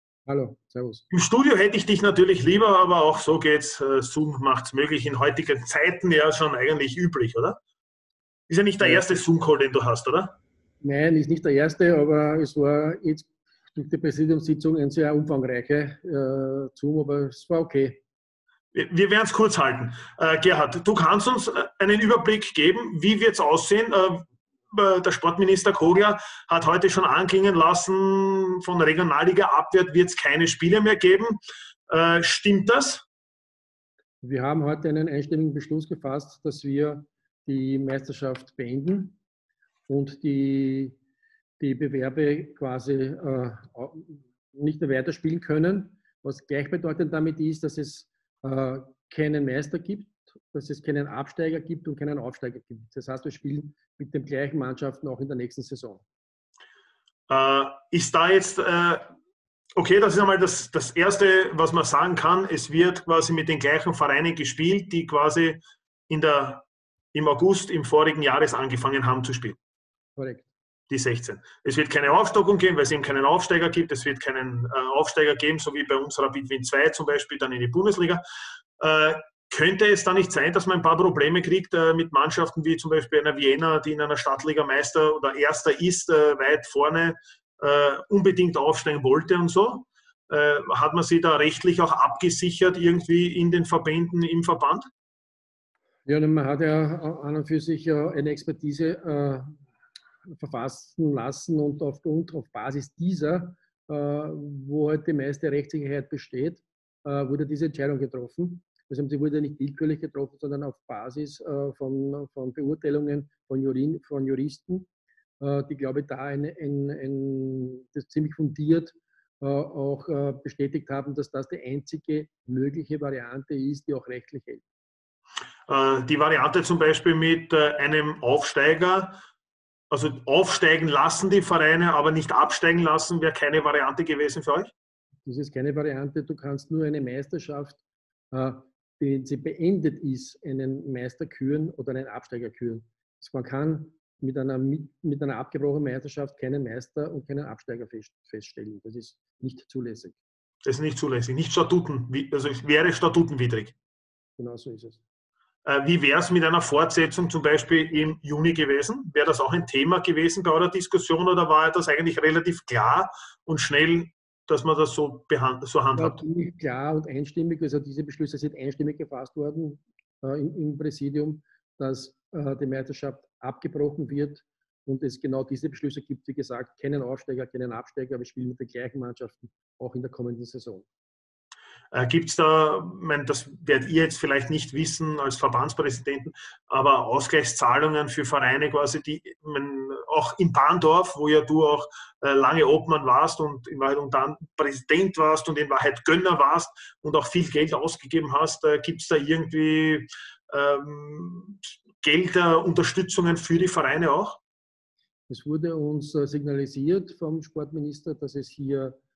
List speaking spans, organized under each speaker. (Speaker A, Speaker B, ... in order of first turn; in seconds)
Speaker A: 0.3-1.0, 8.8-9.1, 10.8-18.0, 34.2-39.2, 39.9-41.0, 41.6-56.0, 70.2-70.5, 96.0-99.5, 100.3-114.9, 115.4-124.6, 135.2-137.8, 138.3-150.2, 154.4-155.0, 166.0-180.9, 205.3-208.9
Speaker B: 1.1-7.6, 8.5-10.4, 18.7-33.0, 57.3-59.1, 59.8-69.5, 70.9-78.2, 78.8-94.8, 125.7-129.2, 129.9-134.7, 150.6-153.7, 155.6-166.2, 181.9-204.4